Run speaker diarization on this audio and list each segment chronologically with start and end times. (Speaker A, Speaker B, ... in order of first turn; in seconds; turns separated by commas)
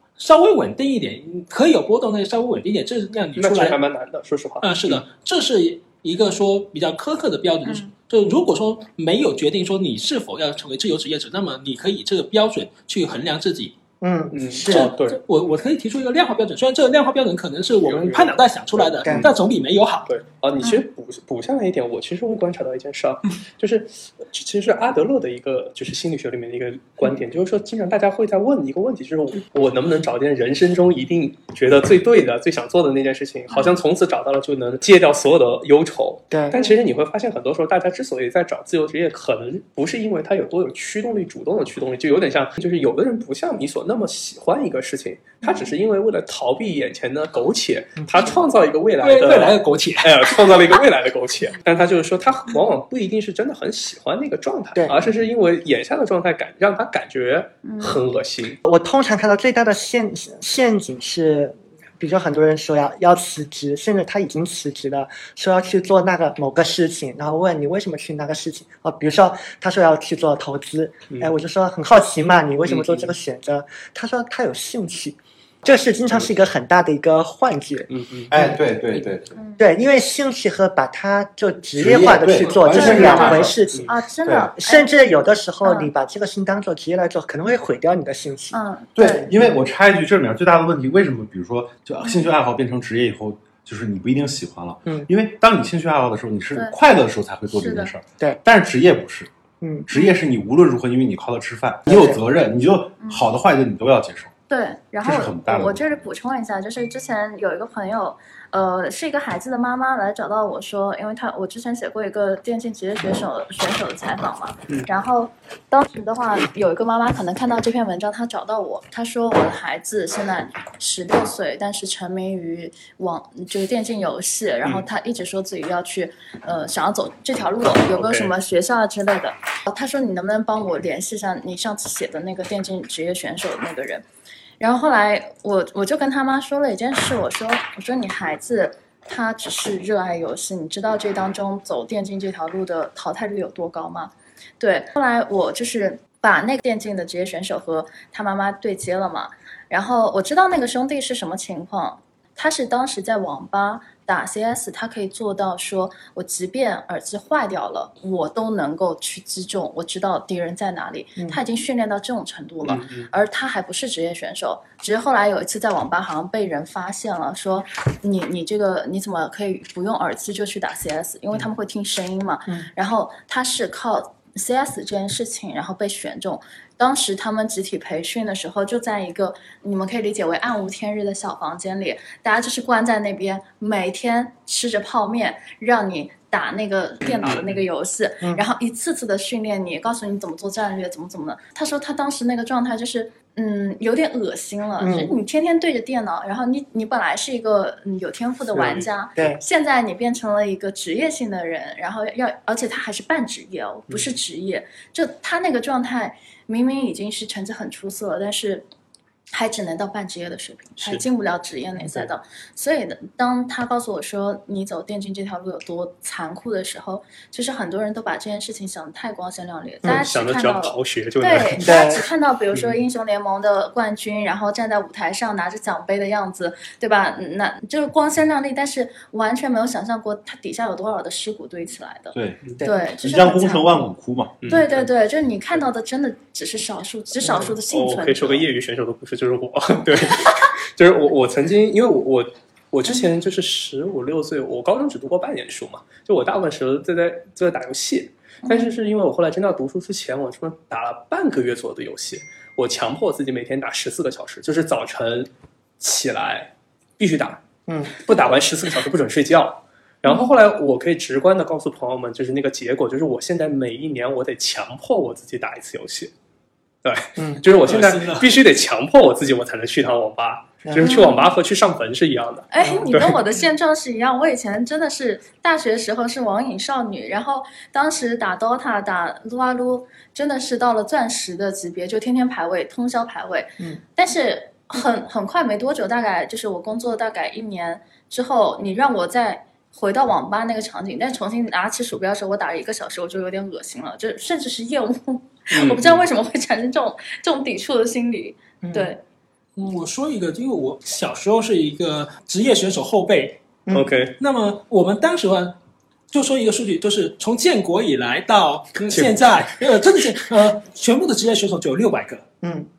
Speaker A: 0.2-3.8, Speaker B: 3.4-5.0, Speaker A: 4.6-13.8, Speaker C: 7.7-7.9, Speaker D: 14.0-14.9, Speaker B: 14.3-15.2, Speaker A: 14.7-20.1, Speaker B: 17.8-19.3, Speaker D: 19.1-19.3, Speaker B: 20.1-58.6, Speaker D: 36.3-36.6, Speaker D: 48.0-48.3, Speaker A: 49.0-50.2, Speaker C: 57.6-58.0, Speaker D: 58.6-78.5, Speaker B: 72.7-73.1, Speaker B: 77.9-78.3, Speaker E: 78.3-79.4, Speaker C: 79.3-79.6, Speaker D: 79.6-89.6, Speaker E: 81.8-83.6, Speaker A: 81.9-83.3, Speaker C: 82.7-84.9, Speaker B: 83.0-83.9, Speaker E: 84.2-84.5, Speaker C: 85.6-85.9, Speaker C: 88.5-89.3, Speaker E: 89.0-99.3, Speaker C: 92.0-92.3, Speaker C: 97.5-97.9, Speaker D: 99.6-99.9, Speaker E: 99.9-104.3, Speaker D: 101.9-102.2, Speaker C: 104.5-134.1, Speaker E: 105.0-106.0, Speaker B: 127.9-128.3, Speaker C: 134.6-208.7, Speaker B: 162.6-163.1, Speaker B: 187.0-187.6, Speaker D: 194.8-195.2, Speaker B: 198.5-198.9, Speaker B: 203.9-204.1, Speaker C: 209.3-233.9, Speaker B: 210.8-211.0, Speaker B: 219.9-221.7, Speaker D: 221.6-222.1, Speaker E: 232.1-232.4, Speaker E: 232.9-234.5, Speaker B: 234.4-234.9, Speaker C: 234.4-238.4, Speaker B: 237.2-255.3, Speaker C: 248.4-248.7, Speaker B: 255.8-257.4, Speaker D: 257.7-257.9, Speaker B: 258.0-266.1, Speaker B: 266.8-273.2, Speaker D: 267.2-267.4, Speaker A: 267.5-268.3, Speaker D: 270.6-271.0, Speaker C: 270.8-271.3, Speaker C: 272.5-299.0, Speaker D: 272.6-273.1, Speaker B: 295.5-296.0, Speaker D: 298.6-298.9, Speaker A: 299.6-303.4, Speaker B: 303.7-304.2, Speaker A: 304.2-305.6, Speaker A: 306.1-312.3, Speaker B: 308.9-309.3, Speaker D: 312.4-312.7